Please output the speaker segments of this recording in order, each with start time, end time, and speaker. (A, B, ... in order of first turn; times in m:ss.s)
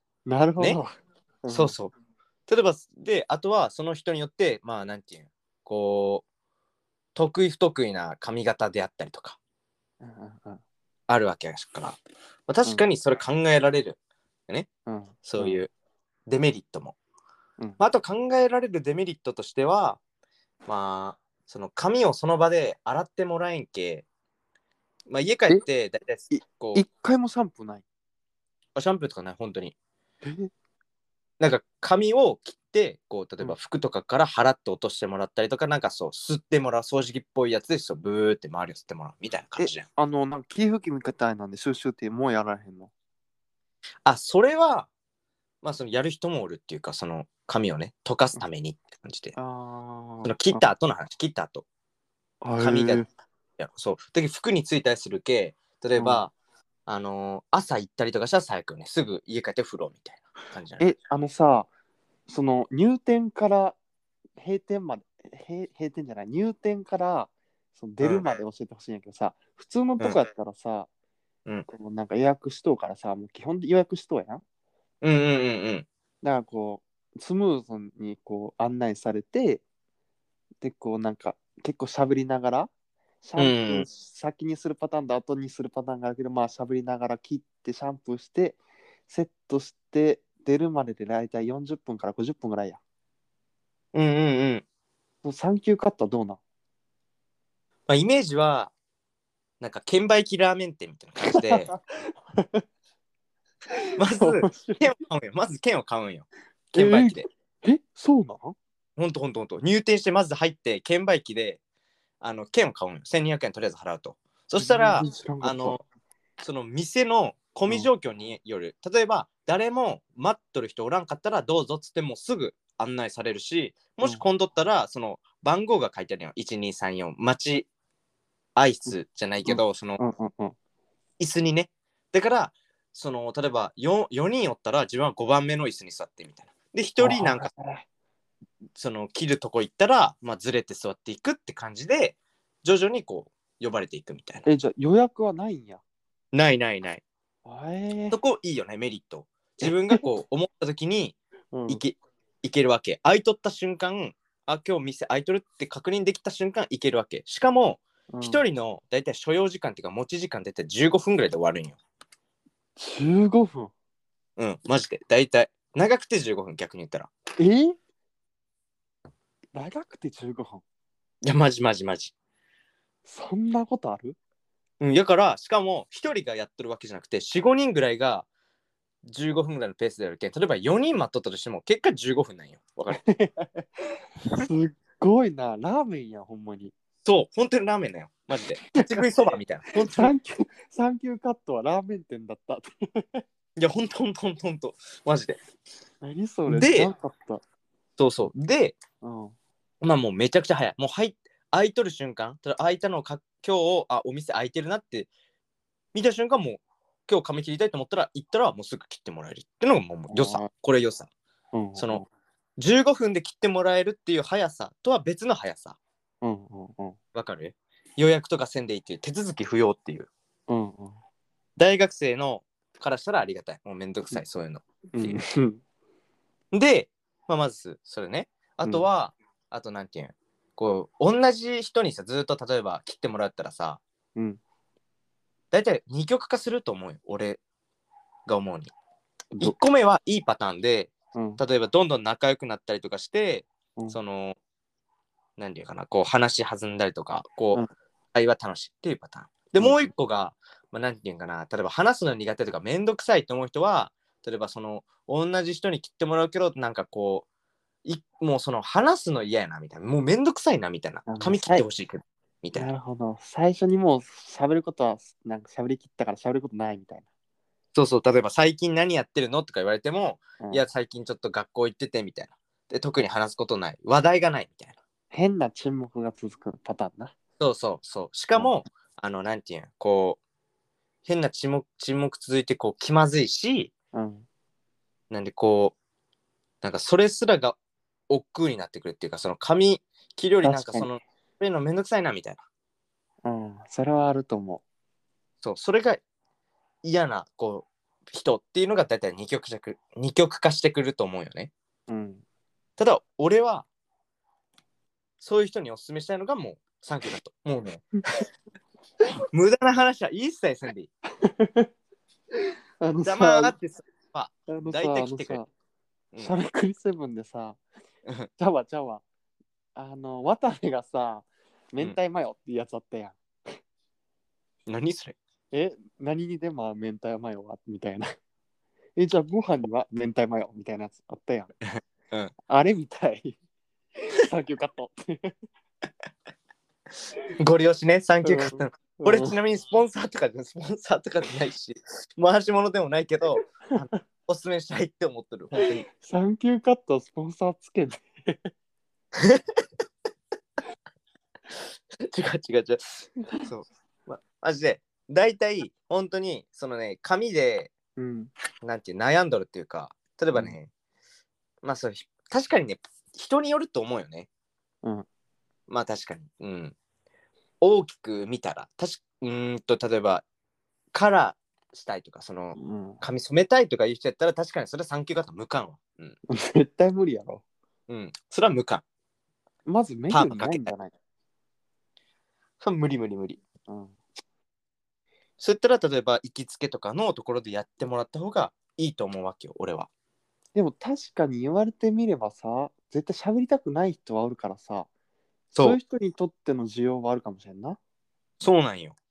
0:00.2-0:00.9 A
0:01.4-0:01.7 A
0:01.5-0:01.9 B
0:02.5-0:06.2 B
0:07.1-0:09.4 B
0:10.0-0:10.6 A
0:11.1-0:14.0 B
0:14.8-0:15.6 A
0:15.2-0:15.7 B
0:16.3-0:17.0 B
0:17.8-0:20.0 B
0:20.7-0:24.0 B
0:25.1-0:26.8 B
0:26.3-0:27.8 A
0:28.8-0:29.7 B
0:30.2-0:30.5 A
0:31.4-0:39.8 B
0:39.6-0:42.9 A
0:44.0-0:44.9 B
0:45.6-0:49.4 B
0:49.3-0:50.6 A
0:50.2-0:51.6 B
0:52.4-0:53.1 A
0:52.6-0:53.1 B
0:53.6-0:56.3 B
0:56.0-0:56.2 A
0:56.9-1:00.9 B
1:00.8-1:01.7 A
1:02.3-1:03.8 A
1:04.4-1:10.9 A
1:08.0-1:08.2 B
1:11.7-1:14.4 A
1:15.0-1:15.9 B
1:16.2-1:19.6 A
1:20.6-1:22.7 A
1:23.2-1:32.8 A
1:23.4-1:23.9 B
1:33.9-1:34.6 B
1:35.2-1:36.4 A
1:37.9-1:38.7 B
1:39.6-1:41.7 B
1:41.3-1:42.6 A
1:44.0-1:47.2 B
1:44.2-1:44.9 A
1:46.7-1:48.6 A
1:49.0-1:51.6 B
1:52.2-1:55.8 B
1:54.6-1:55.8 A
1:56.4-2:07.7 B
2:08.6-2:10.0 B
2:09.4-2:10.6 A
2:11.2-2:17.5 B
2:17.0-2:17.8 A
2:18.8-2:24.5 B
2:24.4-2:25.8 A
2:26.3-2:27.0 B
2:27.4-2:28.2 A
2:28.1-2:41.8 B
2:29.6-2:30.0 A
2:31.5-2:31.8 A
2:38.1-2:38.4 A
2:42.8-2:43.7 A
2:44.4-2:47.1 B
2:47.4-2:47.8 A
2:49.5-2:50.6 A
2:51.2-2:52.1 B
2:53.0-2:54.2 A
2:54.8-2:58.3 B
2:59.0-3:03.0 B
3:02.9-3:03.6 A
3:04.3-3:06.7 A
3:07.0-3:10.1 B
3:09.7-3:13.2 A
3:13.6-3:15.4 B
3:16.0-3:17.4 A
3:16.5-3:16.9 B
3:18.0-3:18.8 B
3:19.0-3:19.3 A
3:19.8-3:25.1 B
3:25.9-3:31.1 B
3:30.1-3:30.5 A
3:31.5-3:32.0 A
3:31.8-3:32.0 B
3:32.6-3:35.8 B
3:36.2-3:37.0 A
3:37.1-3:40.1 B
3:40.5-3:41.0 A
3:41.6-3:45.2 B
3:44.9-3:45.6 A
3:46.5-3:53.8 B
3:55.5-3:57.4 B
3:58.3-3:58.7 B
3:59.4-4:04.4 B
4:01.1-4:01.4 A
4:05.4-4:07.6 B
4:08.1-4:17.3 B
4:09.6-4:09.9 A
4:17.8-4:22.7 B
4:21.1-4:21.6 A
4:22.5-4:27.0 A
4:27.7-4:34.8 B
4:35.1-4:37.1 A
4:37.4-4:40.2 B
4:41.0-4:43.7 B
4:43.9-4:44.2 A
4:45.1-4:45.8 B
4:46.6-4:47.6 B
4:48.1-4:52.4 B
4:50.4-4:50.9 A
4:53.2-4:54.6 A
4:55.4-4:56.0 B
4:56.8-5:01.5 B
5:01.9-5:02.2 A
5:02.8-5:03.7 B
5:05.2-5:07.8 B
5:09.3-5:10.9 B
5:11.2-5:11.7 A
5:12.8-5:13.5 A
5:13.0-5:15.4 B
5:14.5-5:15.5 A
5:16.2-5:17.6 A
5:18.4-5:19.0 A
5:19.8-5:23.6 A
5:24.7-5:25.2 B
5:25.5-5:28.1 A
5:29.0-5:31.5 A
5:31.7-5:32.3 B
5:32.5-5:33.4 A
5:34.0-5:35.3 A
5:37.4-5:45.8 B
5:38.2-5:39.3 A
5:45.6-5:48.5 A
5:49.2-5:49.4 B
5:52.0-5:57.7 B
5:58.0-5:58.3 A
5:58.6-6:00.7 B
6:01.6-6:04.3 B
6:05.7-6:06.8 B
6:07.6-6:10.2 B
6:10.9-6:16.2 B
6:12.6-6:13.0 A
6:16.3-6:17.4 A
6:17.9-6:18.8 B
6:19.6-6:20.9 A
6:20.1-6:20.7 B
6:22.6-6:23.4 B
6:23.7-6:23.9 A
6:25.4-6:29.9 B
6:30.5-6:34.9 A
6:35.5-6:35.8 B
6:35.6-6:37.8 A
6:38.4-6:39.0 B